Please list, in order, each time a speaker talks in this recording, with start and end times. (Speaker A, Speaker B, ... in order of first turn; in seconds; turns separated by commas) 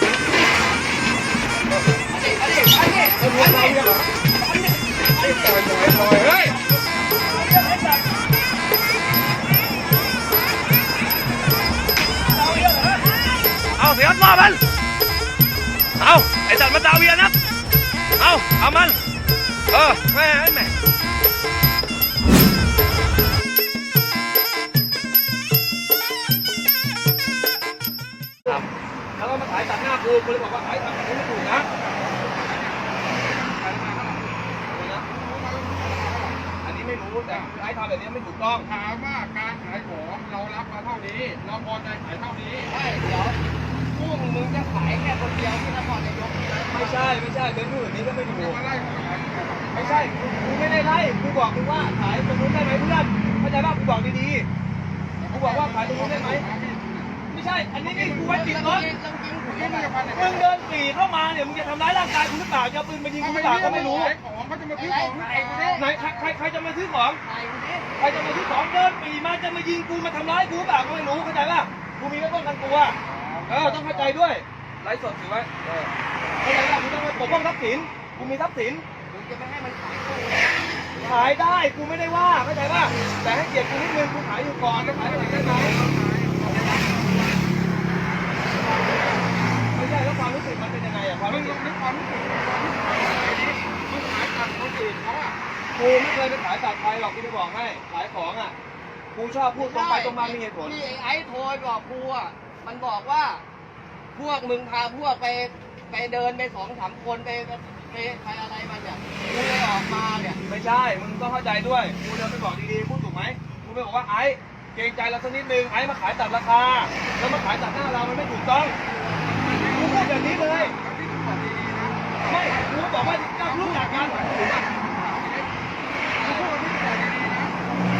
Speaker A: 2.1-3.9, Speaker B: 3.2-4.0, Speaker A: 4.5-5.6, Speaker C: 5.2-6.6, Speaker B: 7.1-8.0, Speaker B: 12.3-13.1, Speaker B: 13.8-14.6, Speaker B: 16.0-17.3, Speaker B: 18.2-19.0, Speaker B: 19.7-20.7, Speaker B: 29.2-31.7, Speaker C: 31.3-34.4, Speaker B: 34.7-35.1, Speaker C: 35.1-36.4, Speaker B: 36.6-38.7, Speaker C: 37.3-37.5, Speaker C: 38.6-42.7, Speaker A: 42.7-43.4, Speaker A: 43.9-47.1, Speaker B: 46.7-48.6, Speaker C: 48.2-50.1, Speaker B: 49.7-54.5, Speaker A: 55.2-55.5, Speaker B: 55.3-56.5, Speaker C: 55.3-57.2, Speaker B: 57.3-58.9, Speaker C: 57.9-58.2, Speaker A: 58.2-60.1, Speaker C: 59.5-60.5, Speaker B: 60.1-64.2, Speaker C: 63.2-65.8, Speaker A: 63.5-64.1, Speaker A: 64.7-66.3, Speaker B: 65.7-67.2, Speaker A: 67.2-67.9, Speaker B: 68.0-78.8, Speaker A: 73.1-74.2, Speaker A: 79.1-81.1, Speaker B: 81.0-85.8, Speaker C: 84.6-88.3, Speaker B: 89.7-91.6, Speaker C: 91.2-95.4, Speaker B: 95.7-98.5, Speaker B: 99.1-100.8, Speaker A: 99.5-103.4, Speaker A: 104.2-110.4, Speaker B: 110.5-118.8, Speaker C: 119.2-125.5, Speaker B: 119.6-120.8, Speaker B: 122.2-124.6, Speaker A: 126.2-126.5, Speaker C: 126.2-127.7